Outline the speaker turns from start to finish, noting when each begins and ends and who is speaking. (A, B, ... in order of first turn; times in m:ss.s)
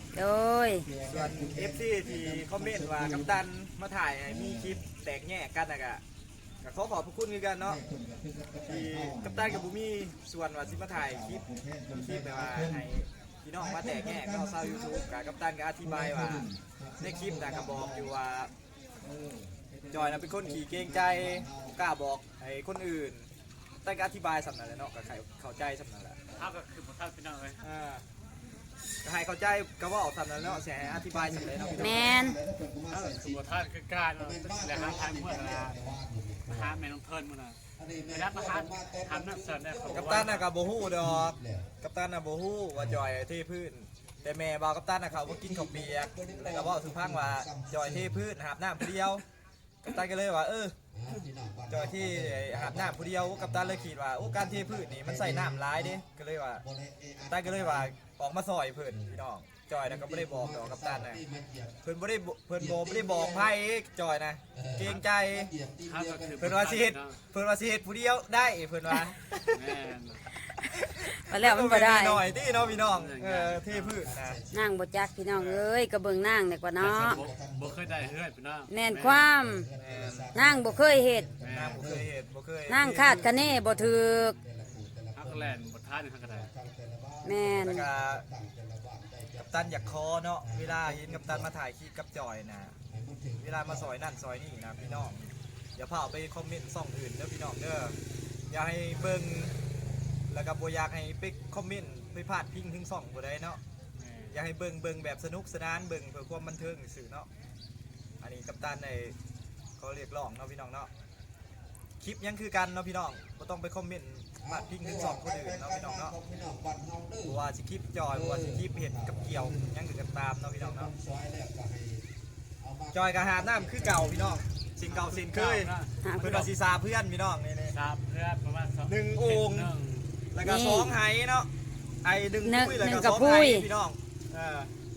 0:00.1-0:00.9 A
0:00.8-0:03.3 B
0:01.0-0:06.0 C
0:04.3-0:04.8 B
0:06.6-0:07.8 C
0:07.7-0:09.6 B
0:08.6-0:16.5 C
0:10.7-0:12.8 B
0:13.6-0:15.1 B
0:15.8-0:18.1 B
0:17.0-0:18.5 C
0:19.0-0:21.7 B
0:19.9-0:23.3 C
0:23.8-0:26.2 C
0:26.3-0:27.6 D
0:27.6-0:28.0 C
0:29.0-0:32.1 C
0:30.4-0:33.4 B
0:31.8-0:32.4 A
0:32.9-0:35.8 D
0:34.2-0:36.7 B
0:36.5-0:40.4 D
0:37.8-0:40.3 B
0:39.9-0:49.2 C
0:40.9-0:41.7 B
0:45.1-0:48.2 B
0:49.8-0:50.8 C
0:51.0-0:56.0 B
0:51.7-0:56.6 C
0:56.7-0:57.9 B
0:57.2-1:01.2 C
0:59.9-1:01.7 B
1:01.8-1:05.5 C
1:02.6-1:03.5 B
1:04.6-1:06.6 B
1:05.8-1:07.2 D
1:06.4-1:09.6 C
1:09.5-1:10.2 D
1:10.7-1:14.4 C
1:11.1-1:12.2 A
1:12.3-1:12.8 B
1:12.8-1:14.1 D
1:14.0-1:14.6 B
1:14.5-1:17.2 A
1:15.3-1:15.7 C
1:16.8-1:19.3 D
1:17.0-1:18.1 B
1:18.7-1:19.7 A
1:19.4-1:22.0 B
1:19.8-1:20.3 C
1:20.3-1:21.3 A
1:21.4-1:21.9 D
1:21.5-1:23.3 C
1:22.7-1:24.4 A
1:23.0-1:25.7 B
1:25.1-1:26.5 D
1:26.3-1:31.5 B
1:27.2-1:27.8 A
1:27.6-1:28.2 C
1:29.4-1:32.8 C
1:32.9-1:33.8 B
1:33.4-1:38.0 C
1:38.5-1:39.5 C
1:40.3-1:43.6 C
1:44.0-1:44.4 D
1:44.3-1:47.3 C
1:48.2-1:49.1 C
1:49.8-1:50.9 C
1:52.0-1:56.2 C
1:54.5-1:57.3 B
1:57.2-2:00.9 C
1:58.2-1:59.7 B
2:00.6-2:02.0 B
2:02.6-2:04.4 B
2:02.9-2:07.7 C
2:04.9-2:06.5 D
2:06.0-2:06.3 A
2:07.7-2:10.2 D
2:08.8-2:09.7 C
2:10.3-2:11.5 C
2:10.4-2:10.9 A
2:12.0-2:14.7 C
2:12.4-2:13.6 A